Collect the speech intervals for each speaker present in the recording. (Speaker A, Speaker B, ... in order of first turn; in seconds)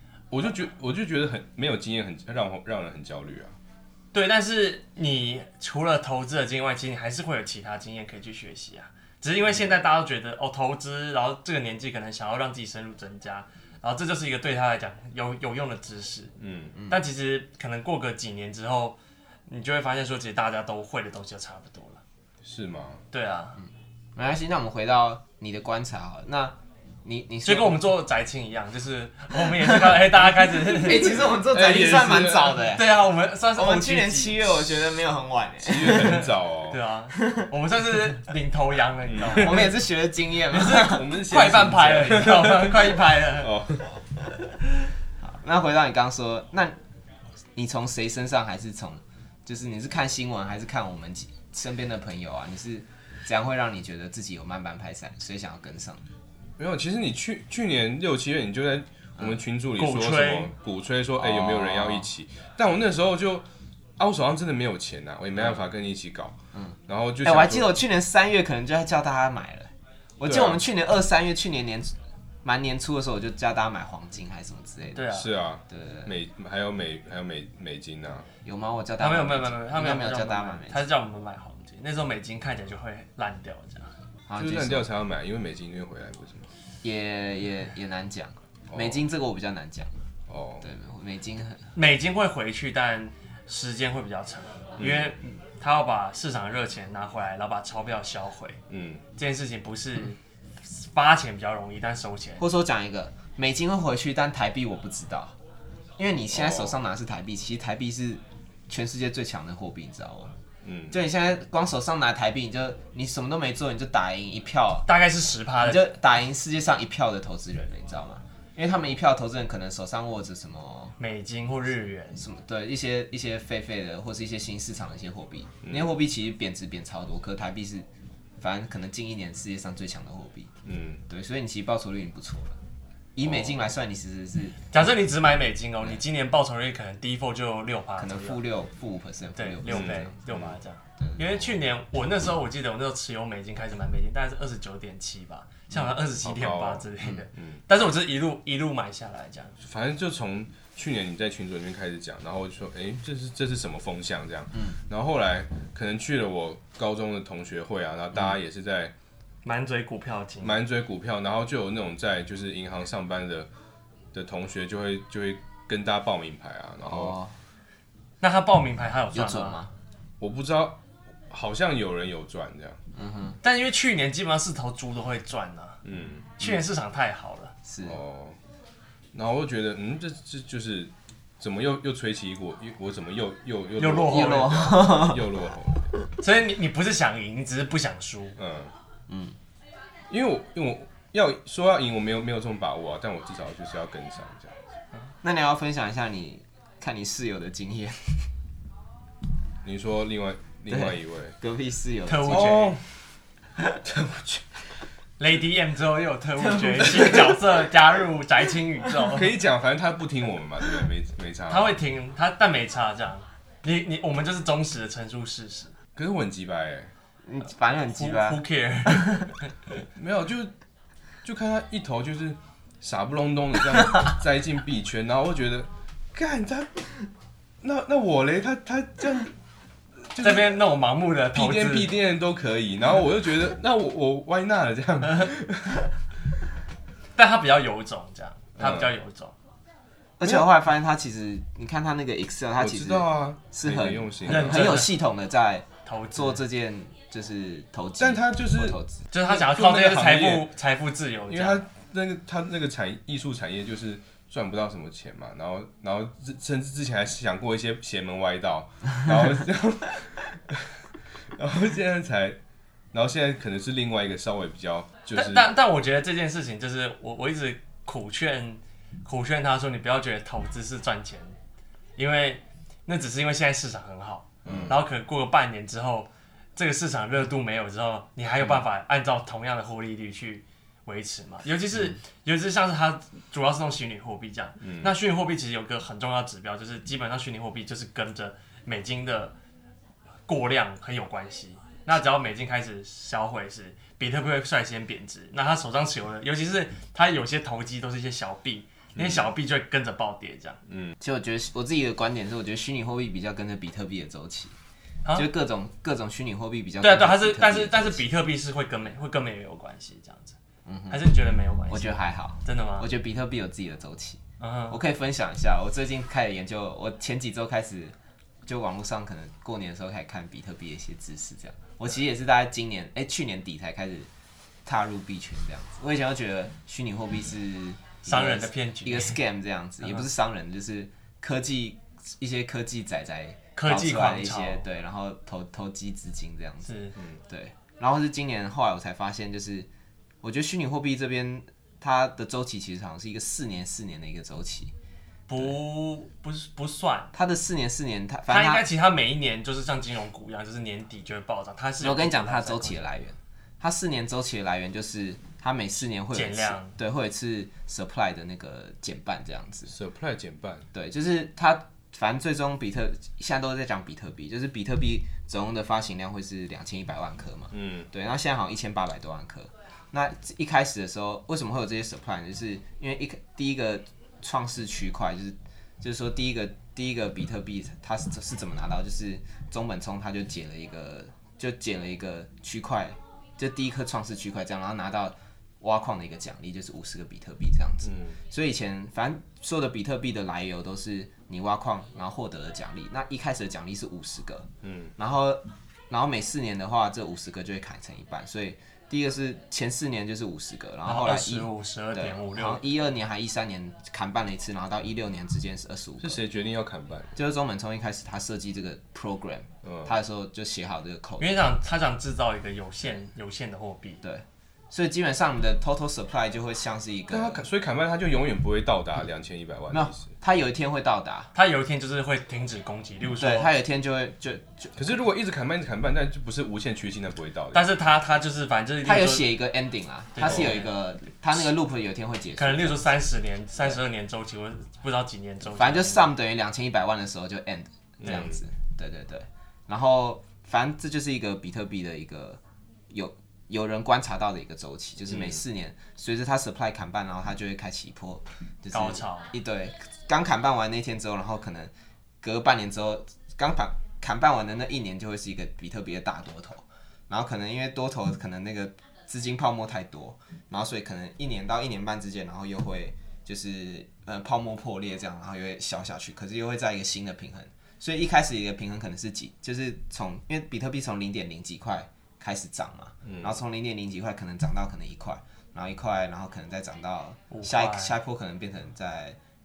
Speaker A: 0.3-3.5, 16.4-16.8, 22.4-23.0, 30.9-32.6, 35.6-36.8, 39.1-39.6, 40.6-43.9, 56.6-63.5, 64.0-66.4, 66.9-67.8, 70.2-70.6, 75.1-78.3, 84.4-86.5, 88.7-89.0, 90.3-90.7, 94.8-95.1, 98.7-99.0, 106.3-106.8, 110.6-111.0, 125.6-125.9, 130.6-131.0, 133.2-133.6, 139.7-140.6, 146.2-147.6, 149.6-158.9, 160.4-163.5, 164.1-167.2, 170.2-170.8, 171.3-172.8, 175.8-176.6, 177.8-178.4, 179.1-185.9, 188.4-188.7, 190.1-194.6, 199.6-201.4, 202.3-202.8, 203.9-204.4, 209.1-211.8, 215.9-216.9, 219.9-220.5, 221.2-226.9, 227.6-229.3, 230.1-230.6, 231.3-235.9, 238.6-238.9, 242.6-244.8, 248.0-250.5, 251.3-262.4, 262.9-265.5, 274.4-274.8, 284.6-284.9, 298.9-299.3, 300.7-300.9, 359.7-360.6, 367.5-367.9, 387.8-388.2, 394.6-394.9, 406.0-407.1, 409.6-409.9, 417.1-420.1, 424.8-427.7, 438.0-438.4, 445.1-445.4, 473.0-473.4
Speaker B: 4.1-16.3, 16.9-22.0, 23.1-23.6, 27.4-31.1, 32.7-34.4, 36.7-39.7, 40.5-43.5, 59.8-60.5, 74.9-75.3, 79.0-83.9, 91.8-98.6, 99.2-102.4, 114.9-115.9, 121.0-122.2, 134.7-138.4, 139.4-149.6, 159.4-160.6, 168.2-169.6, 173.4-175.8, 176.4-177.5, 183.8-184.9, 186.2-188.4, 202.1-202.8, 205.2-209.3, 211.5-215.7, 217.8-219.5, 230.2-231.9, 237.2-239.3, 244.2-244.9, 245.8-246.4, 249.1-251.6, 265.1-271.4, 272.0-289.3, 290.3-300.6, 306.8-310.4, 310.9-312.9, 314.4-314.8, 328.1-329.2, 333.6-334.6, 336.6-336.9, 345.3-347.1, 348.3-352.9, 356.1-356.7, 400.9-402.6, 411.2-414.0, 421.4-423.5, 427.5-429.3, 430.1-430.7, 432.4-436.1, 448.7-449.3, 477.3-477.9
Speaker C: 16.8-17.0, 24.1-27.8, 30.7-33.0, 33.5-36.3, 37.2-37.5, 39.4-41.0, 45.2-46.8, 47.5-56.0, 61.2-62.1, 66.5-75.1, 75.7-76.1, 78.4-80.9, 84.3-84.9, 86.8-90.0, 90.6-91.7, 102.4-105.4, 106.0-110.3, 110.9-114.9, 115.6-120.9, 122.1-127.9, 128.4-130.5, 131.1-132.6, 133.2-134.6, 138.0-140.1, 141.0-141.4, 166.8-167.3, 169.1-169.7, 172.9-173.4, 177.6-178.0, 184.0-185.3, 189.1-189.4, 195.2-198.2, 200.7-202.6, 206.5-207.4, 217.2-219.1, 240.2-249.0, 301.0-304.6, 305.1-308.0, 310.6-311.1, 311.7-324.1, 324.6-336.7, 337.3-339.7, 340.2-344.7, 347.1-348.6, 351.8-359.7, 360.7-406.2, 407.1-411.5, 414.0-417.4, 419.7-421.3, 423.2-424.9, 428.8-432.8, 435.4-479.2